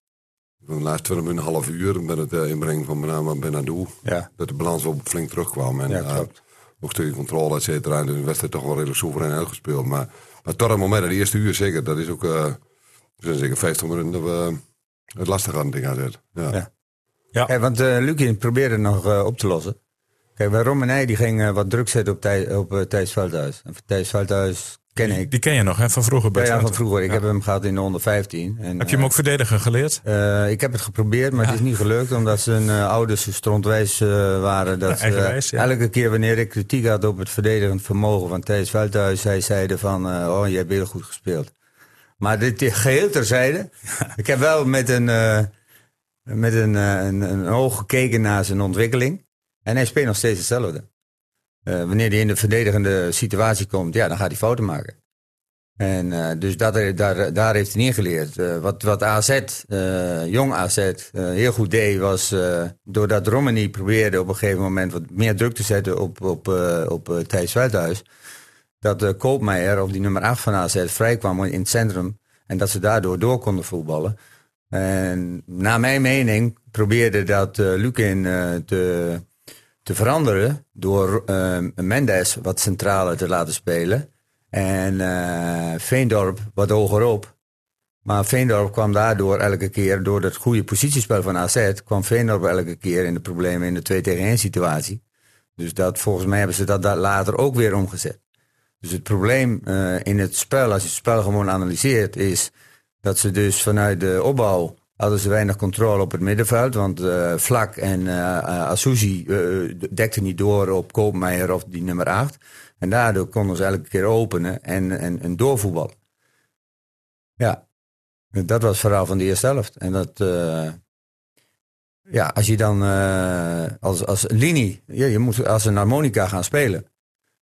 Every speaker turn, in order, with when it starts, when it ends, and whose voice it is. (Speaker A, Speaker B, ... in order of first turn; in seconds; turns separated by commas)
Speaker A: 0.6-12.6, Speaker B: 5.9-6.3, Speaker A: 13.2-14.6, Speaker A: 15.2-16.6, Speaker B: 17.4-19.8, Speaker B: 20.4-25.3, Speaker C: 25.0-26.8, Speaker B: 26.3-29.1, Speaker C: 28.8-30.0, Speaker B: 30.1-41.5, Speaker C: 35.0-35.7, Speaker B: 42.2-45.5, Speaker B: 46.3-50.9, Speaker B: 51.7-55.0, Speaker B: 55.8-68.0, Speaker B: 68.8-74.2, Speaker B: 74.7-79.2, Speaker B: 79.8-87.3, Speaker B: 88.0-95.0, Speaker B: 95.6-98.2, Speaker B: 98.8-102.5, Speaker B: 103.0-116.0, Speaker B: 118.3-120.8, Speaker B: 122.1-126.8